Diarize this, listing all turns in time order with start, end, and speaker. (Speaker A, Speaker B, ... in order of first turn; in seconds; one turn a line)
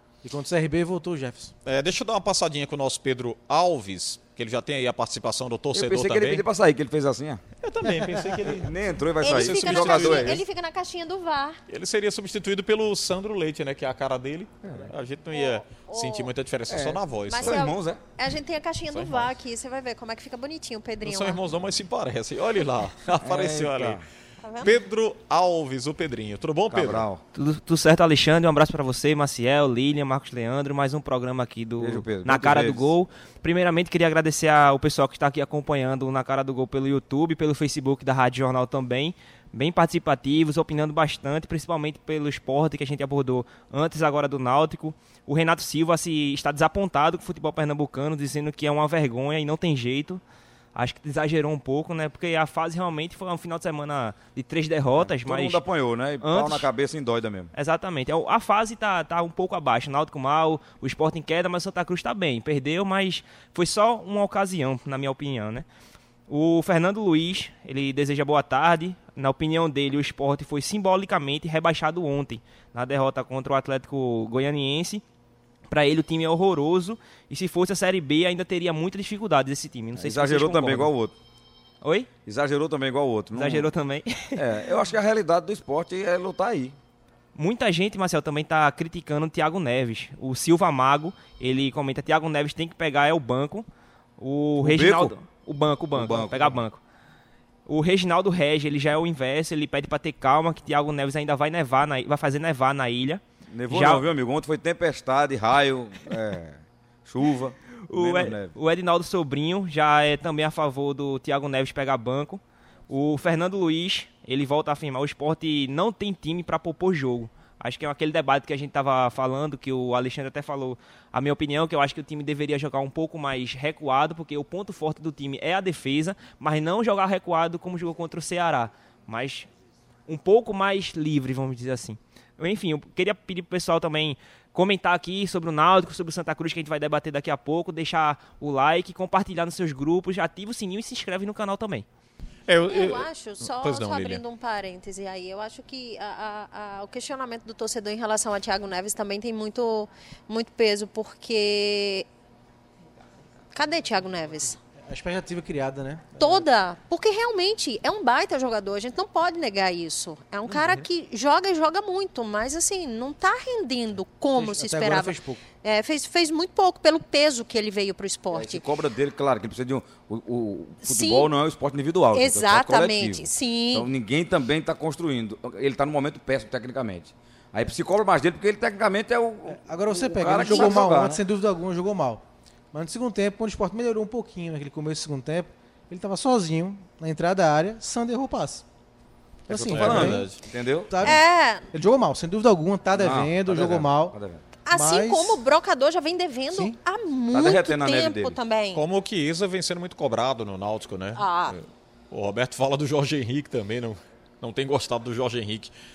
Speaker A: 0.2-1.5
Speaker B: 1.6-6.4
Speaker C: 5.7-7.4
Speaker B: 7.6-10.4
Speaker C: 8.4-10.4
Speaker D: 9.2-11.6
Speaker B: 11.7-17.6
Speaker D: 15.3-16.3
Speaker C: 16.7-18.0
Speaker D: 17.3-21.4
Speaker B: 18.9-19.3
Speaker B: 21.0-24.0
Speaker C: 23.2-24.0
Speaker D: 24.4-24.8
Speaker B: 24.6-27.1
Speaker C: 26.7-27.2
Speaker E: 27.3-50.2
Speaker C: 31.8-32.9
Speaker E: 50.7-55.6
Speaker C: 55.0-57.5
Speaker E: 56.2-56.7
Speaker E: 57.5-65.7
Speaker E: 66.3-75.0
Speaker E: 75.7-80.9
Speaker C: 80.0-81.1
Speaker E: 81.8-82.1
Speaker C: 82.2-83.7
Speaker E: 83.3-84.6
Speaker C: 84.3-86.8
Speaker E: 87.3-93.7
Speaker E: 94.2-96.8
Speaker C: 94.6-95.1
Speaker C: 95.9-96.6
Speaker E: 97.7-104.1
Speaker C: 103.5-108.5
Speaker E: 107.9-129.5
Speaker E: 130.1-141.8
Speaker B: 142.5-144.2
Speaker D: 142.7-152.1
Speaker D: 153.5-154.6
Speaker A: 154.8-156.4
Speaker D: 156.2-168.6
Speaker A: 160.5-160.8
Speaker A: 164.3-165.4
Speaker C: 168.3-181.2
Speaker D: 170.8-171.3
Speaker D: 172.1-173.9
Speaker A: 179.5-188.6
Speaker A: 189.5-190.3
Speaker C: 189.5-191.0
Speaker B: 189.7-190.4
Speaker A: 190.9-191.2
Speaker D: 191.0-191.7
Speaker A: 191.7-194.2
Speaker C: 192.9-194.4
Speaker D: 194.7-198.8
Speaker A: 194.7-195.4
Speaker C: 197.3-198.4
Speaker B: 198.7-205.7
Speaker D: 201.2-201.6